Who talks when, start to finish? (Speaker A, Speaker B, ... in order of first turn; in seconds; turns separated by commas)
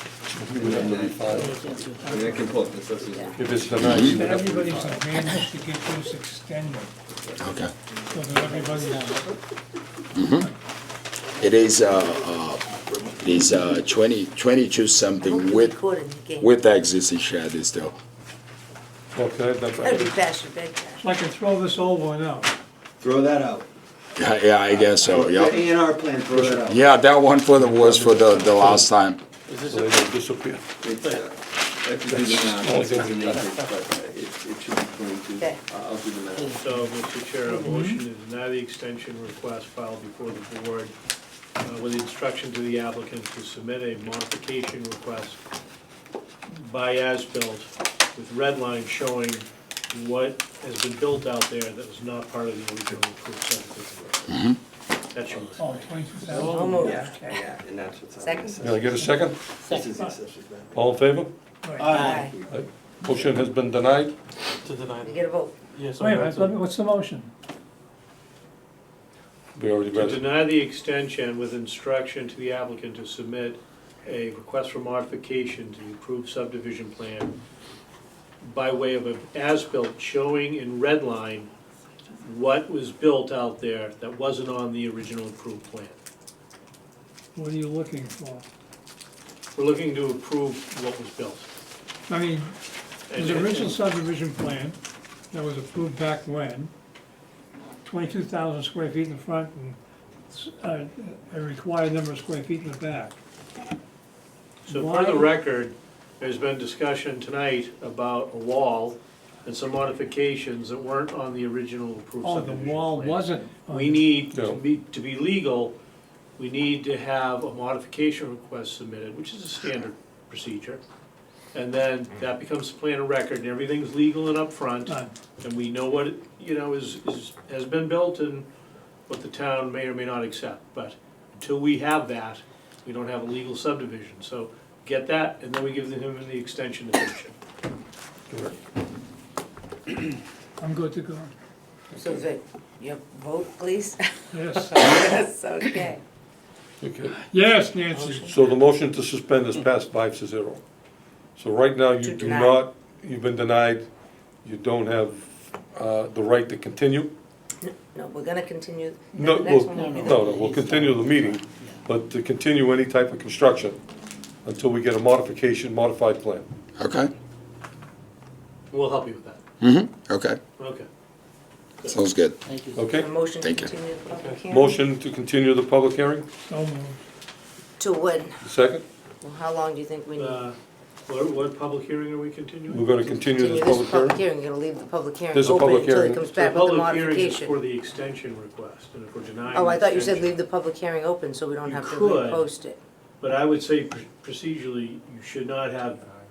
Speaker A: 0.3-1.8, Speaker B: 0.5-4.3, Speaker C: 1.4-2.5, Speaker D: 2.0-2.4, Speaker A: 3.4-5.0, Speaker E: 3.8-4.2, Speaker D: 3.9-6.9, Speaker E: 7.4-7.7, Speaker D: 8.1-9.3, Speaker F: 8.3-9.1, Speaker E: 10.1-10.5, Speaker E: 11.4-15.8, Speaker F: 15.2-16.6, Speaker E: 16.4-18.0, Speaker A: 19.1-20.1, Speaker F: 19.8-21.1, Speaker D: 21.0-22.5, Speaker B: 23.0-23.7, Speaker E: 24.2-25.6, Speaker B: 24.7-26.9, Speaker A: 26.3-26.6, Speaker E: 26.7-29.2, Speaker A: 27.5-28.9, Speaker G: 29.5-30.1, Speaker A: 29.6-30.6, Speaker B: 30.8-36.6, Speaker A: 32.1-33.5, Speaker G: 36.6-40.9, Speaker D: 37.5-38.0, Speaker G: 41.6-45.4, Speaker G: 46.5-54.4, Speaker E: 54.3-54.6, Speaker G: 55.1-56.6, Speaker D: 55.6-57.4, Speaker F: 56.3-57.1, Speaker B: 56.8-60.9, Speaker F: 58.2-58.7, Speaker A: 58.6-59.6, Speaker D: 59.7-60.1, Speaker A: 60.7-61.3, Speaker D: 61.6-62.1, Speaker B: 61.8-62.5, Speaker F: 61.9-62.4, Speaker A: 62.5-64.2, Speaker G: 64.6-66.5, Speaker F: 65.0-65.6, Speaker D: 66.0-67.3, Speaker A: 69.5-70.2, Speaker G: 69.9-77.4, Speaker G: 78.4-81.5, Speaker G: 82.2-86.0, Speaker D: 87.3-88.4, Speaker G: 89.6-91.5, Speaker D: 92.1-92.5, Speaker G: 93.1-93.8, Speaker D: 93.1-94.8, Speaker D: 95.3-96.7, Speaker D: 97.8-99.8, Speaker D: 100.3-103.2, Speaker G: 104.7-115.8, Speaker D: 104.7-105.4, Speaker D: 112.2-114.2, Speaker A: 114.3-114.6, Speaker G: 116.4-120.8, Speaker G: 121.5-128.5, Speaker D: 124.9-125.2, Speaker G: 129.1-137.3, Speaker A: 138.3-138.6, Speaker D: 140.6-141.3, Speaker F: 142.0-146.0, Speaker D: 144.3-144.7, Speaker A: 146.8-147.2, Speaker D: 147.2-148.3, Speaker F: 147.9-148.4, Speaker A: 148.2-150.6, Speaker A: 151.4-153.9, Speaker F: 152.0-152.7, Speaker A: 154.4-157.1, Speaker F: 157.6-160.3, Speaker A: 159.2-163.8, Speaker C: 159.8-161.8, Speaker A: 164.4-166.5, Speaker E: 166.8-167.1, Speaker G: 168.7-169.4, Speaker E: 169.6-170.4, Speaker G: 170.6-170.9, Speaker E: 171.9-172.4, Speaker C: 172.5-172.8, Speaker A: 172.7-173.1, Speaker F: 172.9-174.8, Speaker E: 173.4-173.7, Speaker A: 174.5-176.3, Speaker D: 176.5-177.0, Speaker F: 177.8-178.4, Speaker A: 178.4-178.8, Speaker F: 179.2-180.4, Speaker G: 180.2-180.6, Speaker G: 181.1-183.0, Speaker A: 182.7-184.2, Speaker F: 183.1-187.6, Speaker A: 185.3-186.2, Speaker G: 186.3-190.3, Speaker F: 189.5-192.8, Speaker G: 191.7-192.5, Speaker G: 193.2-196.0